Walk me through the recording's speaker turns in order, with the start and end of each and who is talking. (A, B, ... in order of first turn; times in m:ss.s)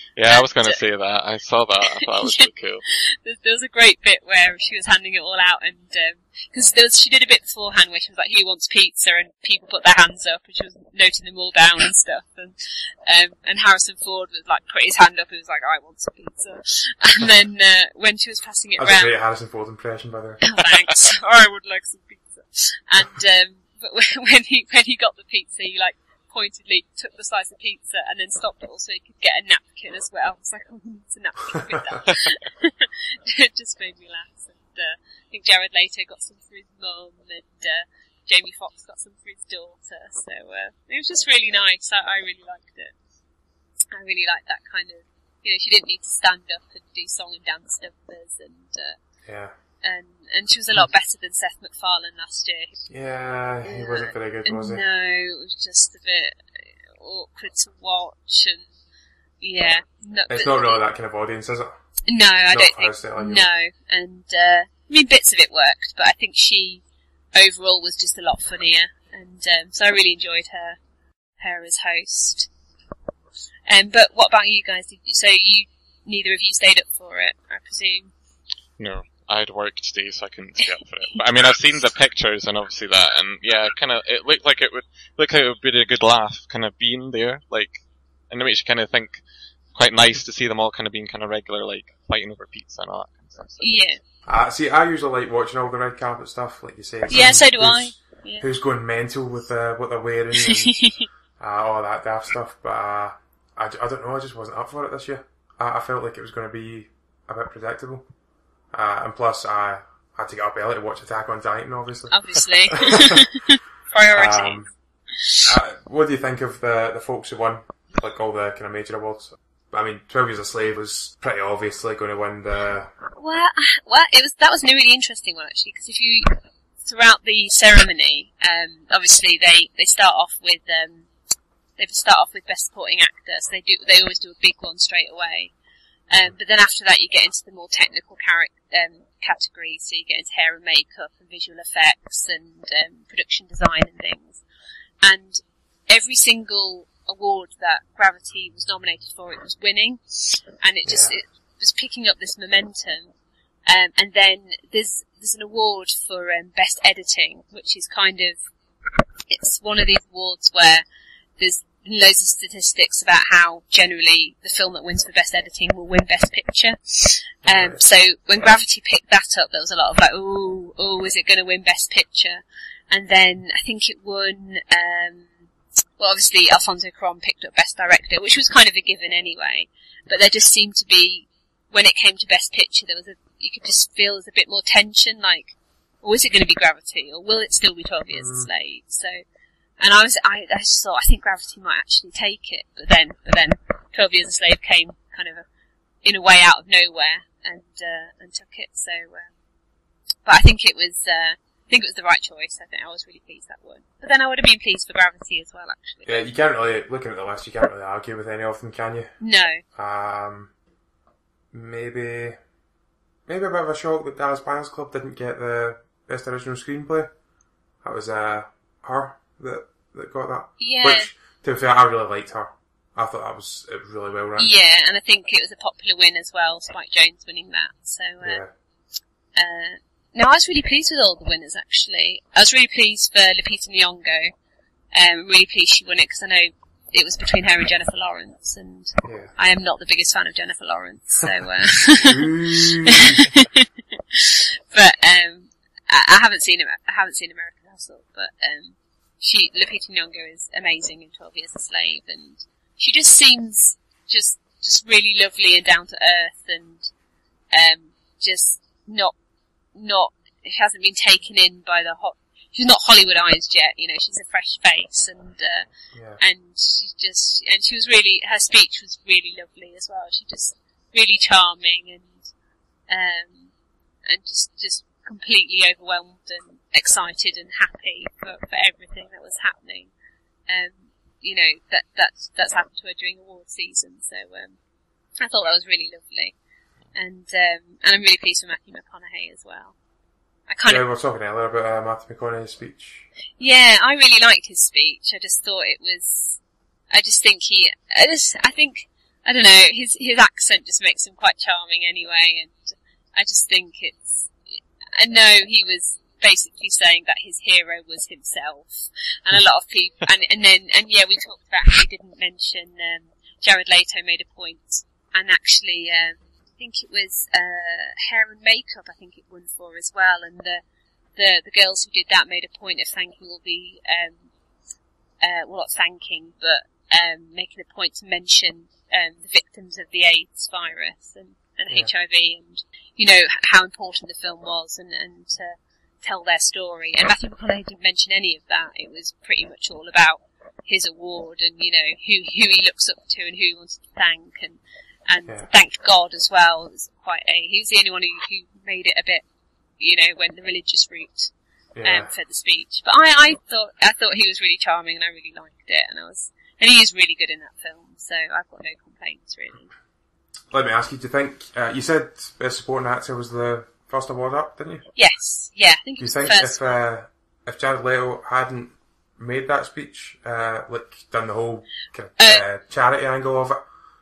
0:00.2-0:02.8 A
0:00.3-0:00.8 B
0:02.0-0:19.2 B
0:18.8-0:20.6 C
0:20.4-0:42.9 B
0:31.7-0:32.0 C
0:43.9-0:49.0 B
0:49.2-0:49.5 C
0:49.8-0:52.9 B
0:52.9-0:54.8 C
0:53.6-0:58.7 B
0:59.4-1:00.8 B
1:00.3-1:01.8 C
1:02.1-1:06.8 B
1:02.5-1:03.5 C
1:07.3-1:10.8 B
1:11.4-1:12.5 B
1:13.7-1:18.1 B
1:18.8-1:29.2 A
1:29.8-1:33.8 A
1:33.6-1:34.0 B
1:34.3-1:40.8 C
1:37.1-1:38.4 B
1:40.4-1:41.1 B
1:41.4-1:48.1 C
1:48.7-1:52.2 C
1:52.1-1:55.5 B
1:52.7-1:53.2 C
1:54.1-1:54.7 C
1:55.5-2:02.9 C
2:03.2-2:11.1 B
2:11.8-2:15.5 B
2:16.1-2:24.4 B
2:25.0-2:33.1 B
2:30.8-2:31.2 C
2:33.7-2:38.4 B
2:39.3-2:40.8 B
2:41.4-2:55.3 B
2:47.4-2:47.8 C
2:56.0-3:09.2 B
3:08.1-3:08.5 C
3:09.8-3:15.5 B
3:16.0-3:19.3 B
3:20.2-3:26.3 B
3:26.1-3:29.2 C
3:29.2-3:29.6 B
3:29.8-3:30.5 C
3:31.5-3:32.4 C
3:33.3-3:37.1 C
3:37.8-3:44.5 C
3:40.6-3:41.1 B
3:44.4-3:48.4 B
3:48.2-3:48.5 C
3:49.4-3:54.3 B
3:54.9-4:16.9 B
3:59.0-3:59.3 C
4:02.0-4:03.2 C
4:17.5-4:19.2 B
4:19.8-4:25.7 B
4:25.9-4:26.2 C
4:26.2-4:32.3 B
4:32.9-4:33.5 B
4:34.1-4:39.9 B
4:40.5-4:44.6 B
4:45.2-4:46.4 B
4:46.9-4:49.8 B
4:50.5-4:50.8 B
4:50.7-4:53.1 C
4:53.4-4:56.4 B
4:56.9-5:04.3 B
5:05.0-5:20.6 B
5:21.2-5:24.3 B
5:25.2-5:49.2 B
5:49.8-5:51.3 B
5:51.8-5:52.1 C
5:51.8-5:59.7 B
6:00.5-6:04.8 C
6:05.0-6:06.8 B
6:06.0-6:13.6 C
6:12.2-6:12.4 B